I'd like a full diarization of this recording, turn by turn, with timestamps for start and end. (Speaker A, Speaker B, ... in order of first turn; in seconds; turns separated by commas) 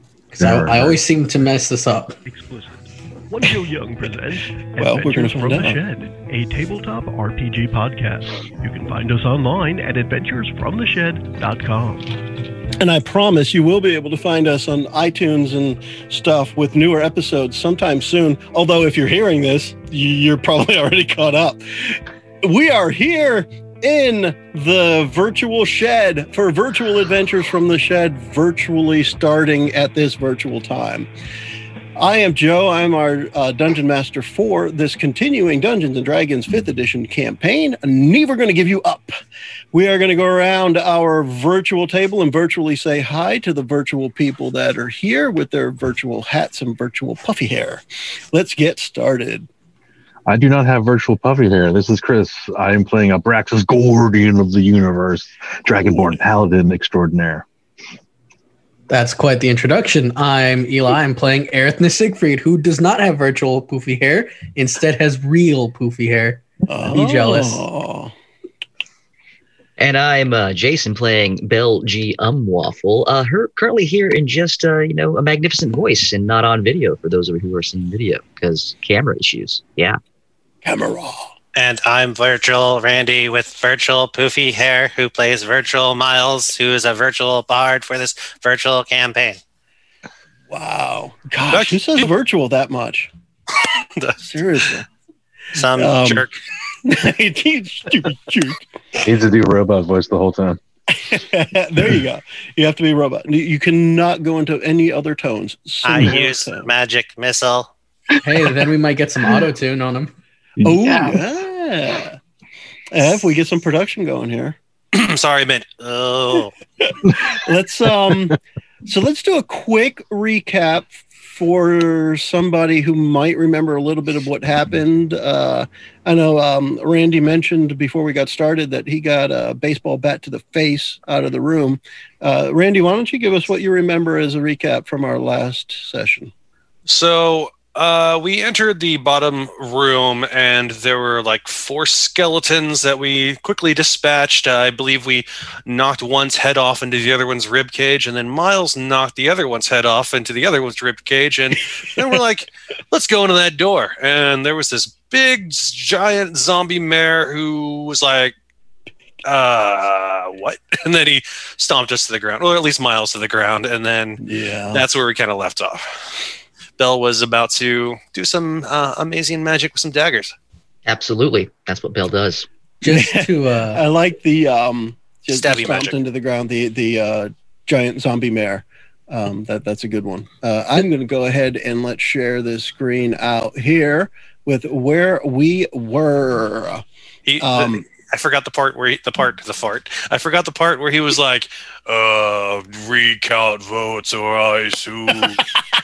Speaker A: 0.3-2.2, Speaker B: 0.4-1.0, Speaker C: 2.2-12.1, Speaker D: 4.8-5.8, Speaker D: 12.8-31.1, Speaker D: 31.9-39.1, Speaker D: 39.7-49.5, Speaker B: 50.3-57.5, Speaker D: 55.9-56.2, Speaker A: 58.9-67.7, Speaker D: 66.7-68.1, Speaker E: 69.8-80.0, Speaker D: 80.6-81.3, Speaker F: 81.5-89.4, Speaker D: 90.5-93.1, Speaker G: 91.5-92.0, Speaker D: 94.2-94.8, Speaker F: 95.5-96.3, Speaker D: 95.7-96.3, Speaker D: 96.8-98.6, Speaker B: 99.0-100.6, Speaker D: 100.9-106.7, Speaker F: 105.8-107.7, Speaker A: 108.2-110.1, Speaker B: 110.6-111.2, Speaker D: 110.6-112.2, Speaker D: 112.9-114.6, Speaker G: 114.9-116.5, Speaker F: 115.9-116.4, Speaker D: 116.8-136.3, Speaker G: 136.9-158.3, Speaker G: 159.2-164.2, Speaker D: 164.2-164.8, Speaker G: 164.7-165.9, Speaker G: 166.8-170.3, Speaker E: 170.8-172.5, Speaker A: 172.8-173.8, Speaker D: 172.8-186.8, Speaker G: 175.3-175.9, Speaker G: 187.2-195.5, Speaker D: 187.4-187.8